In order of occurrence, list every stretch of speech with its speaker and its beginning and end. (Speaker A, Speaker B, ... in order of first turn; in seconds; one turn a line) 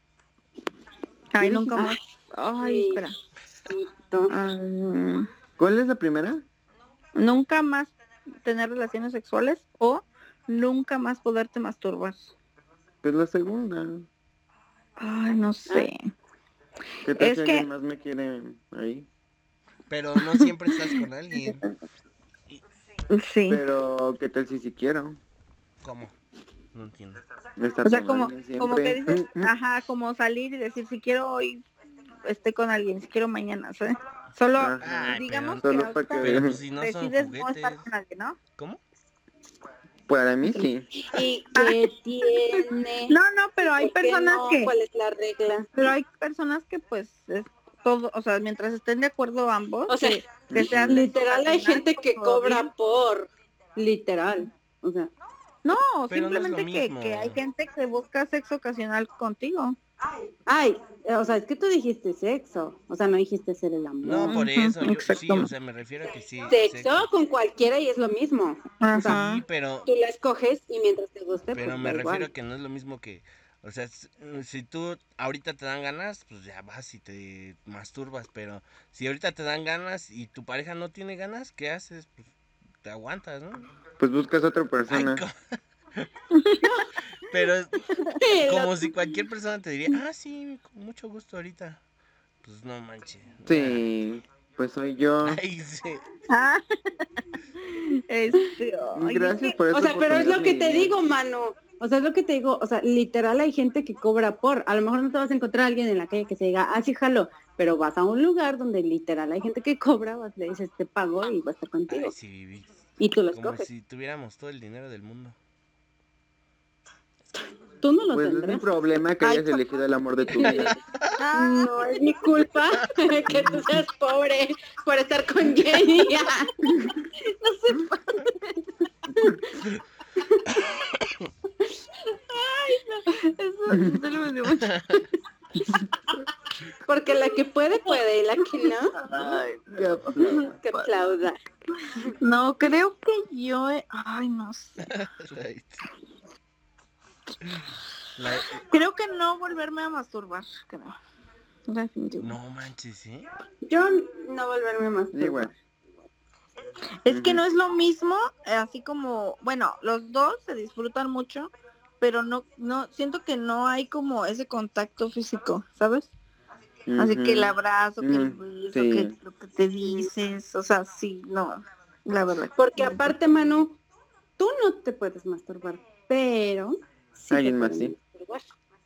Speaker A: 1.3-3.1
Speaker B: 1.4-1.8
Speaker C: 2.5-3.0
Speaker C: 3.6-4.3
Speaker A: 4.3-5.3
Speaker B: 5.6-6.4
Speaker A: 7.2-7.9
Speaker A: 8.4-12.3
Speaker B: 13.0-14.1
Speaker A: 15.0-16.1
Speaker B: 17.0-19.1
Speaker A: 17.2-17.6
Speaker D: 19.9-21.6
Speaker A: 20.3-21.6
Speaker A: 23.1-23.6
Speaker B: 23.5-25.2
Speaker D: 25.8-26.1
Speaker D: 26.7-27.2
Speaker B: 27.6-29.5
Speaker A: 27.8-31.6
Speaker A: 32.2-38.4
Speaker B: 34.6-36.6
Speaker D: 34.8-37.9
Speaker B: 40.1-40.9
Speaker C: 41.1-45.7
Speaker A: 41.1-41.8
Speaker A: 42.5-44.7
Speaker A: 45.7-52.7
Speaker C: 49.9-50.2
Speaker B: 50.5-51.0
Speaker C: 50.8-55.1
Speaker A: 55.6-59.8
Speaker D: 56.1-57.4
Speaker C: 60.5-64.4
Speaker D: 64.0-67.0
Speaker A: 64.3-65.5
Speaker C: 66.5-69.2
Speaker A: 68.8-69.4
Speaker D: 69.0-69.9
Speaker C: 69.8-72.3
Speaker D: 71.5-82.3
Speaker D: 82.8-83.7
Speaker B: 84.0-85.2
Speaker D: 84.9-86.1
Speaker A: 86.3-86.6
Speaker C: 86.6-86.9
Speaker D: 87.2-91.8
Speaker C: 88.2-88.9
Speaker D: 92.4-93.8
Speaker B: 93.5-95.4
Speaker D: 95.2-96.0
Speaker A: 96.3-97.0
Speaker A: 97.8-99.6
Speaker B: 98.9-101.0
Speaker C: 99.7-112.1
Speaker D: 111.9-115.3
Speaker C: 113.0-113.7
Speaker C: 117.8-118.7
Speaker B: 118.1-120.8
Speaker A: 119.2-119.6
Speaker D: 120.7-121.1
Speaker A: 121.2-122.1
Speaker C: 121.3-126.5
Speaker A: 127.4-128.4
Speaker A: 132.6-134.8
Speaker B: 133.7-134.0
Speaker D: 134.7-135.0
Speaker C: 136.9-138.9
Speaker A: 138.6-140.9
Speaker B: 139.1-140.6
Speaker C: 140.6-141.4
Speaker A: 142.2-144.8
Speaker D: 144.8-145.8
Speaker D: 148.2-148.6
Speaker A: 148.6-151.0
Speaker A: 151.7-152.4
Speaker D: 152.2-153.3
Speaker C: 153.7-155.5
Speaker B: 155.1-155.5
Speaker A: 157.0-166.1
Speaker B: 157.1-157.4
Speaker B: 166.9-169.1
Speaker A: 166.9-173.0
Speaker C: 172.6-173.8
Speaker C: 174.4-178.5
Speaker B: 177.3-177.9